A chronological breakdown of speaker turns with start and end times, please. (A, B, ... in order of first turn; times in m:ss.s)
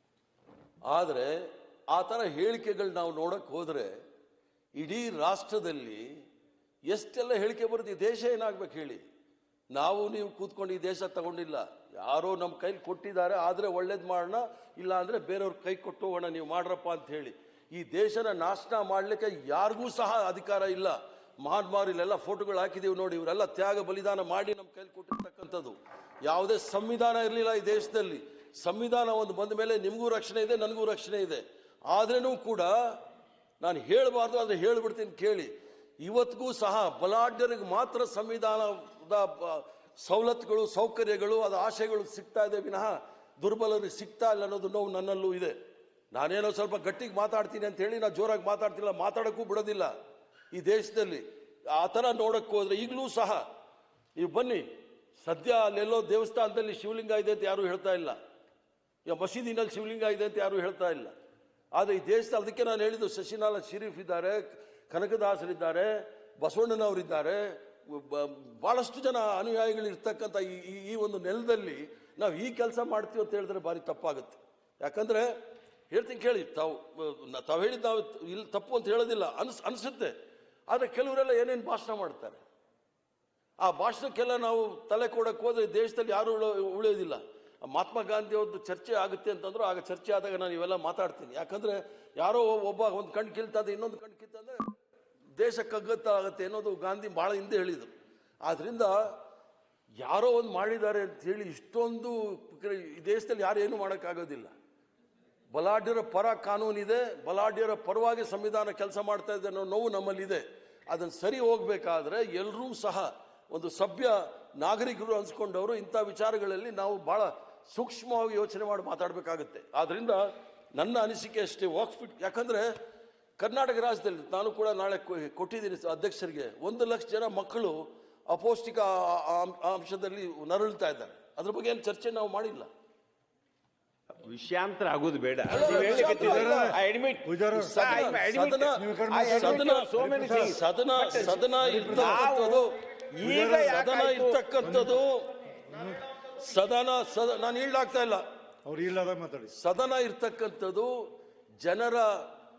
0:00.9-0:04.0 A
0:04.8-0:06.1 A
0:06.9-0:09.0 A
0:09.7-0:32.9 A
0:33.6-0:35.5 A
0:36.0-0:45.6 A
0:46.1-0:49.9 A
0:50.5-0:53.4 A
0:54.2-0:54.7 A
0:55.2-0:58.2 A
0:59.1-1:01.1 A
1:01.8-1:15.3 A
1:15.9-1:20.1 A
1:20.7-1:22.4 A
1:23.6-1:34.6 A
1:35.4-1:37.9 A
1:38.4-1:39.0 A
1:40.0-1:44.5 A
1:45.5-2:02.7 A
2:03.4-2:07.8 A
2:08.3-2:12.7 A
2:14.2-2:24.4 B
2:15.4-2:16.8 A
2:15.6-2:20.6 C
2:17.5-2:22.7 A
2:21.4-2:22.3 C
2:23.2-2:23.9 C
2:23.6-2:25.3 A
2:24.6-2:25.0 C
2:25.7-2:26.0 C
2:26.3-2:28.2 A
2:28.6-2:29.5 C
2:29.5-2:31.0 A
2:31.6-2:32.3 A